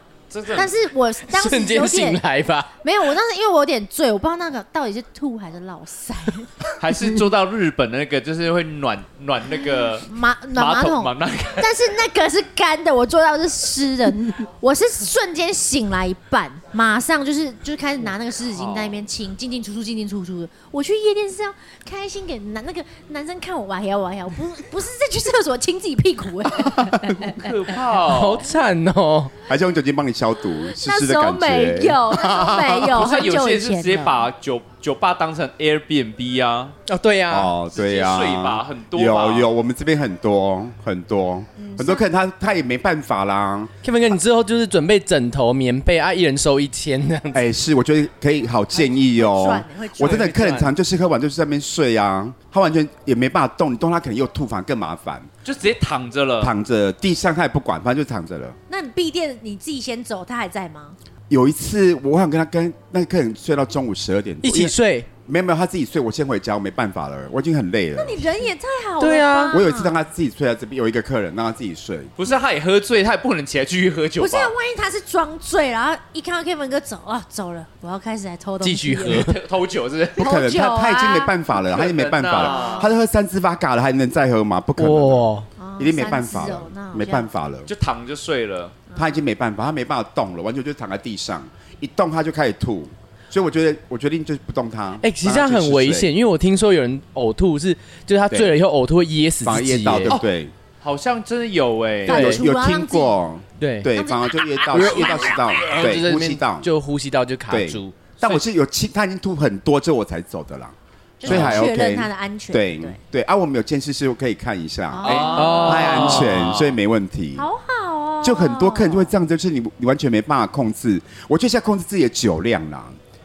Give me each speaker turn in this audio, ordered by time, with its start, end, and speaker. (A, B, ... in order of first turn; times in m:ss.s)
0:00.3-0:00.7 A
0:00.5-0:02.2 B
0:01.3-0:02.7 C
0:02.8-0:06.6 B
0:06.8-0:11.7 A
0:10.0-0:27.5 B
0:18.5-0:19.0 A
0:27.2-0:28.5 A
0:27.9-0:29.3 C
0:29.4-0:33.0 D
0:30.7-0:34.3 B
0:32.9-0:36.8 A
0:36.9-0:37.5 C
0:37.3-0:43.7 D
0:37.7-0:39.5 A
0:41.6-0:42.1 B
0:43.8-0:47.4 C
0:47.3-0:55.3 D
0:48.7-0:50.3 B
0:50.0-0:50.7 C
0:55.4-0:56.5 A
0:56.4-0:58.6 D
0:58.7-1:01.0 B
1:01.3-1:04.7 D
1:04.4-1:05.1 C
1:05.2-1:08.2 D
1:08.0-1:10.0 B
1:09.0-1:09.6 C
1:09.5-1:12.1 D
1:12.2-1:14.5 A
1:14.2-1:19.3 B
1:18.6-1:19.4 C
1:19.0-1:20.3 A
1:20.2-1:21.5 B
1:20.2-1:25.2 D
1:21.5-1:22.9 A
1:22.4-1:22.9 B
1:24.8-1:25.4 C
1:25.6-1:27.3 B
1:25.8-1:27.7 D
1:27.7-1:28.8 A
1:28.9-1:29.2 B
1:28.9-1:36.1 D
1:35.0-1:40.1 C
1:38.3-1:38.5 D
1:39.4-1:40.5 D
1:40.8-1:42.3 A
1:42.0-1:43.2 B
1:42.1-1:42.4 C
1:42.1-1:46.7 D
1:43.6-1:43.9 C
1:43.9-1:45.4 B
1:44.7-1:48.0 C
1:47.5-1:57.4 D
1:51.2-1:53.0 B
1:51.2-1:51.6 A
1:54.9-1:55.9 B
1:55.0-1:56.8 A
1:55.3-1:56.4 C
1:57.4-1:59.1 B
1:58.2-2:03.0 D